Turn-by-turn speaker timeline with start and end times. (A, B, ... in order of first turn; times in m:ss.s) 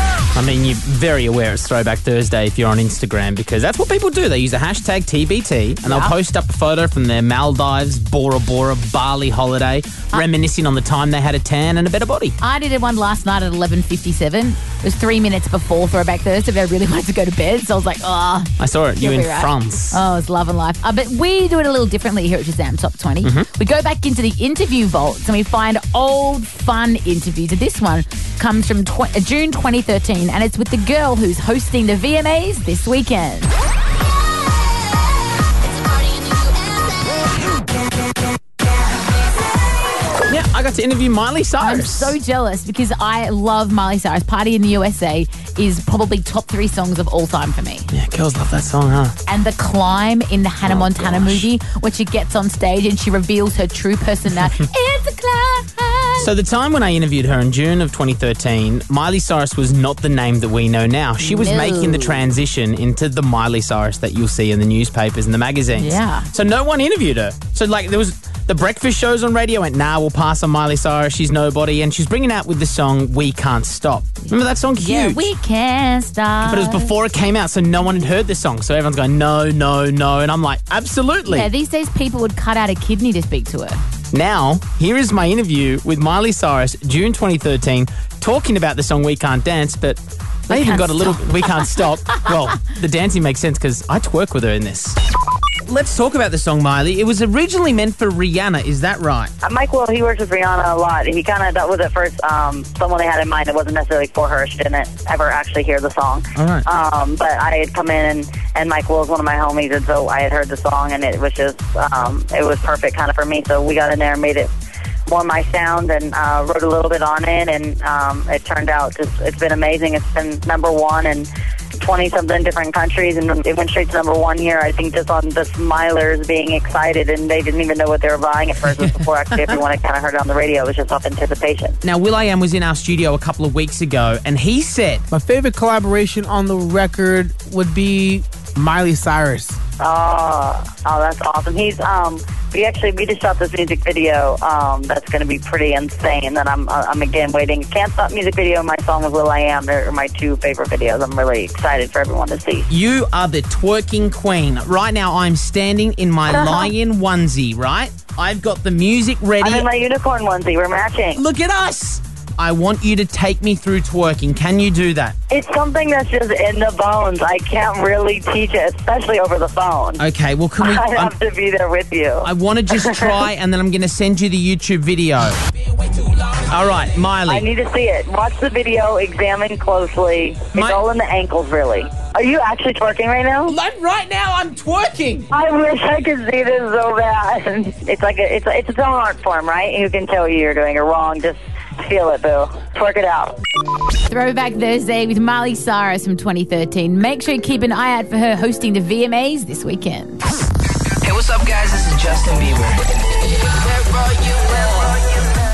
0:00.3-0:12.4 A
0:05.8-0:06.2 B
0:12.4-0:33.5 B
0:18.6-0:20.0 A
0:23.2-0:23.5 A
0:40.3-0:42.2 A
0:41.6-0:47.9 B
0:47.9-0:49.2 A
0:49.3-0:56.3 B
0:50.6-0:51.5 A
0:56.2-1:15.3 A
1:01.2-1:02.3 B
1:05.7-1:06.3 B
1:14.8-1:16.9 B
1:16.4-1:21.5 A
1:21.3-1:23.8 B
1:24.1-1:35.0 A
1:30.5-1:31.8 B
1:35.6-1:39.3 A
1:39.4-1:54.5 C
1:46.3-1:46.6 A
1:55.1-2:01.3 C
2:01.8-2:11.8 C
2:11.8-2:15.1 A
2:15.1-2:19.6 D
2:19.8-2:32.7 C
2:32.7-2:39.7 A
2:36.3-2:36.7 B
2:39.4-2:41.2 C
2:41.1-2:45.2 A
2:45.3-2:50.0 C
2:50.0-2:51.1 A
2:50.6-2:53.1 C
2:52.2-2:55.4 A
2:56.4-2:57.5 A
2:57.3-3:03.6 C
3:00.5-3:00.8 A
3:03.5-3:05.2 D
3:05.3-3:13.4 C
3:14.1-3:20.2 B
3:21.0-3:22.8 E
3:23.7-3:25.0 E